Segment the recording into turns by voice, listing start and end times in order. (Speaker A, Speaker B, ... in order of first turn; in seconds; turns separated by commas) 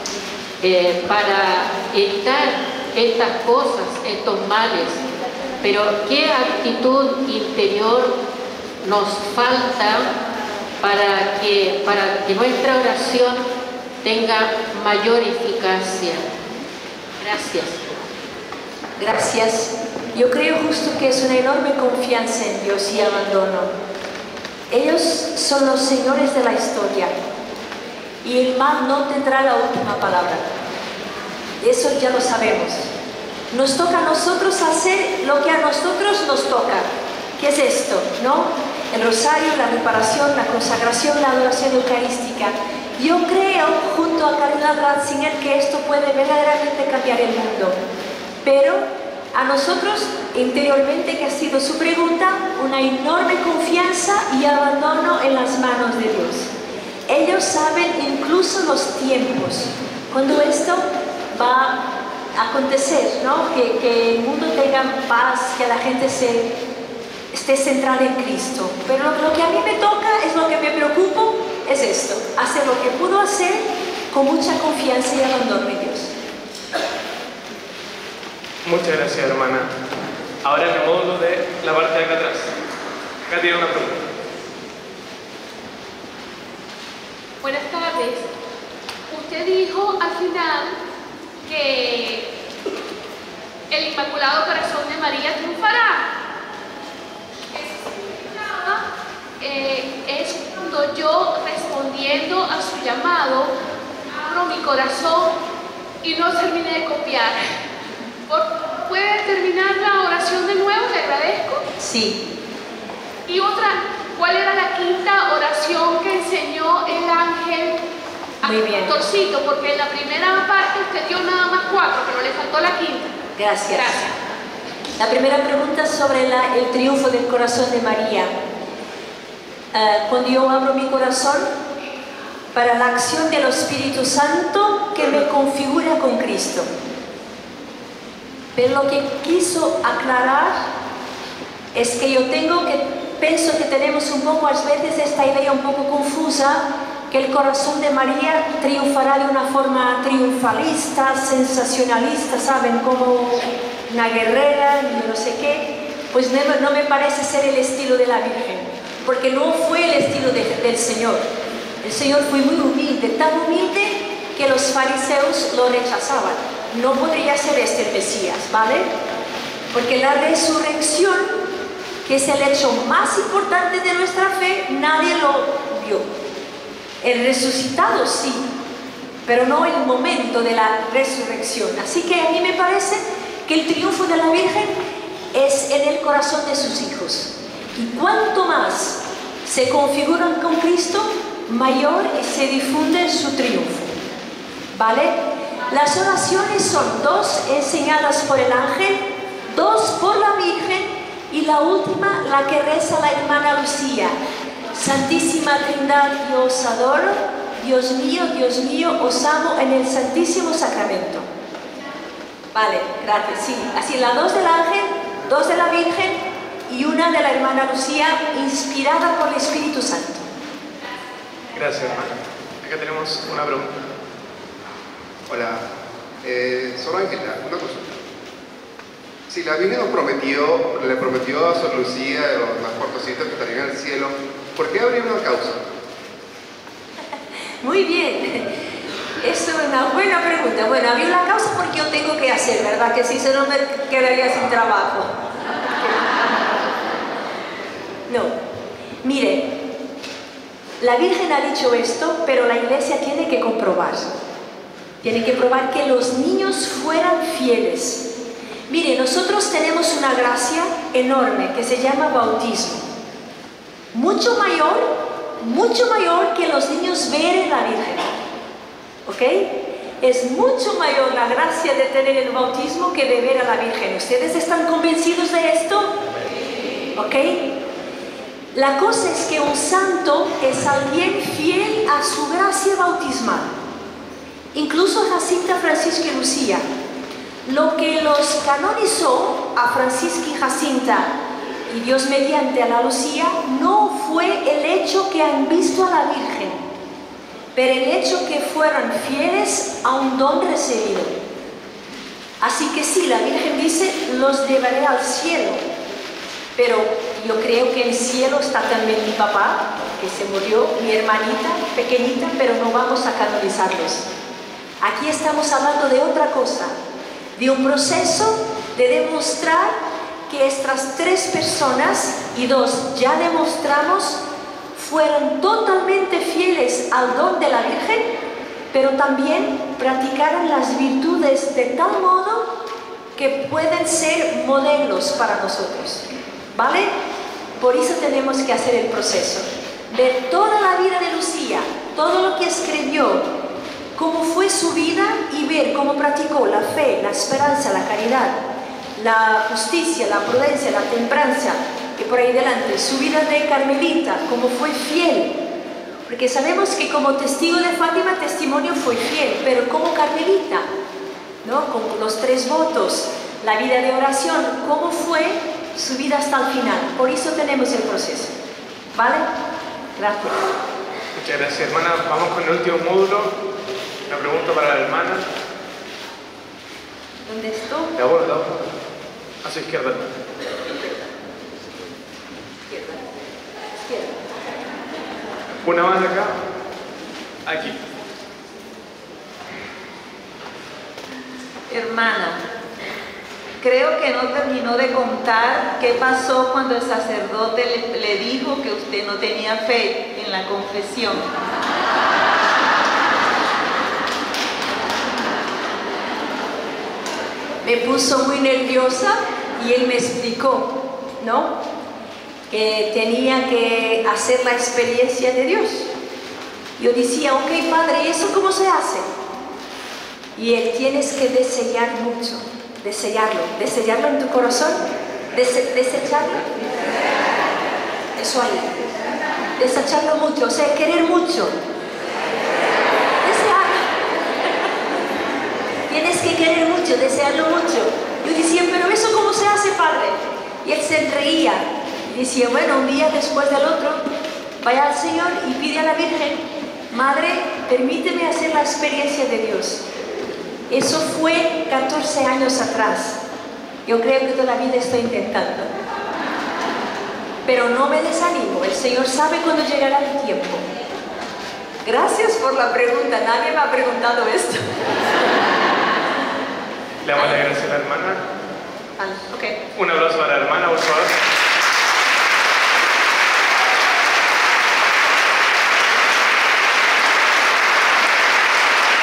Speaker A: 0.6-5.0, Speaker A: 5.6-8.2, Speaker A: 8.8-10.1, Speaker A: 10.8-13.5, Speaker A: 14.0-16.2, Speaker A: 17.2-17.8, Speaker B: 19.0-23.7, Speaker B: 24.7-27.1, Speaker B: 28.2-30.4, Speaker B: 31.6-32.9, Speaker B: 33.5-36.9, Speaker B: 37.4-47.8, Speaker B: 48.4-56.5, Speaker B: 57.1-61.8, Speaker B: 62.3-66.5, Speaker B: 67.3-76.1, Speaker C: 78.6-79.7, Speaker C: 80.4-82.5, Speaker C: 83.3-84.0, Speaker D: 87.4-88.3, Speaker D: 89.1-90.8, Speaker D: 91.5-92.3, Speaker D: 93.7-96.1, Speaker D: 97.5-98.8, Speaker D: 99.4-103.5, Speaker D: 104.1-105.3, Speaker D: 106.0-107.4, Speaker D: 108.3-111.7, Speaker B: 111.8-112.2, Speaker D: 113.2-117.8, Speaker D: 118.4-123.2, Speaker B: 118.4-119.0, Speaker B: 123.3-124.0, Speaker D: 123.7-124.1, Speaker B: 125.0-128.3, Speaker B: 129.7-131.5, Speaker B: 132.5-136.7, Speaker B: 138.5-140.5, Speaker B: 141.7-161.2, Speaker B: 161.8-168.9, Speaker B: 169.7-171.3, Speaker B: 172.0-176.1, Speaker B: 177.0-178.5, Speaker B: 179.2-184.7, Speaker B: 185.3-193.9, Speaker B: 194.7-195.2, Speaker B: 195.7-204.1, Speaker B: 204.7-211.3, Speaker B: 212.5-220.2, Speaker C: 221.5-223.7, Speaker E: 225.3-225.6, Speaker E: 226.2-227.9, Speaker E: 229.3-235.6, Speaker B: 237.6-238.6, Speaker B: 239.2-245.1, Speaker B: 248.1-248.3, Speaker B: 249.0-249.5, Speaker B: 250.8-254.1, Speaker B: 255.0-258.0, Speaker B: 258.7-262.8, Speaker B: 263.9-264.9, Speaker B: 265.4-268.0, Speaker B: 269.1-275.9, Speaker B: 276.9-277.5, Speaker B: 278.5-283.5, Speaker B: 284.5-286.6, Speaker B: 287.4-291.1, Speaker B: 291.7-296.6, Speaker B: 297.5-301.1, Speaker B: 302.4-305.6, Speaker B: 306.6-314.0, Speaker B: 314.8-316.7, Speaker B: 317.4-319.7, Speaker B: 320.3-324.2, Speaker B: 324.7-328.0, Speaker B: 328.7-332.5, Speaker B: 333.1-336.9, Speaker B: 337.6-343.2, Speaker B: 343.9-348.4, Speaker B: 348.9-355.3, Speaker B: 356.1-360.6, Speaker B: 361.4-368.3, Speaker B: 368.9-369.3, Speaker B: 370.0-370.4, Speaker C: 371.1-373.3, Speaker C: 374.1-375.3, Speaker B: 377.2-377.9, Speaker C: 377.9-378.7, Speaker C: 379.4-380.1, Speaker B: 382.7-382.9, Speaker C: 385.6-386.4, Speaker C: 387.4-387.8, Speaker F: 391.7-392.4, Speaker F: 393.6-401.3, Speaker B: 407.6-411.6, Speaker B: 412.5-415.9, Speaker B: 416.8-419.1, Speaker B: 420.3-424.8, Speaker B: 425.3-426.5, Speaker B: 428.1-428.8, Speaker B: 429.6-431.5, Speaker B: 433.2-433.9, Speaker B: 435.9-444.0, Speaker B: 444.6-449.8, Speaker B: 450.7-453.2, Speaker B: 453.9-455.7, Speaker B: 457.4-460.7, Speaker B: 461.8-464.6, Speaker C: 467.0-468.2, Speaker B: 469.0-469.6, Speaker C: 469.7-471.1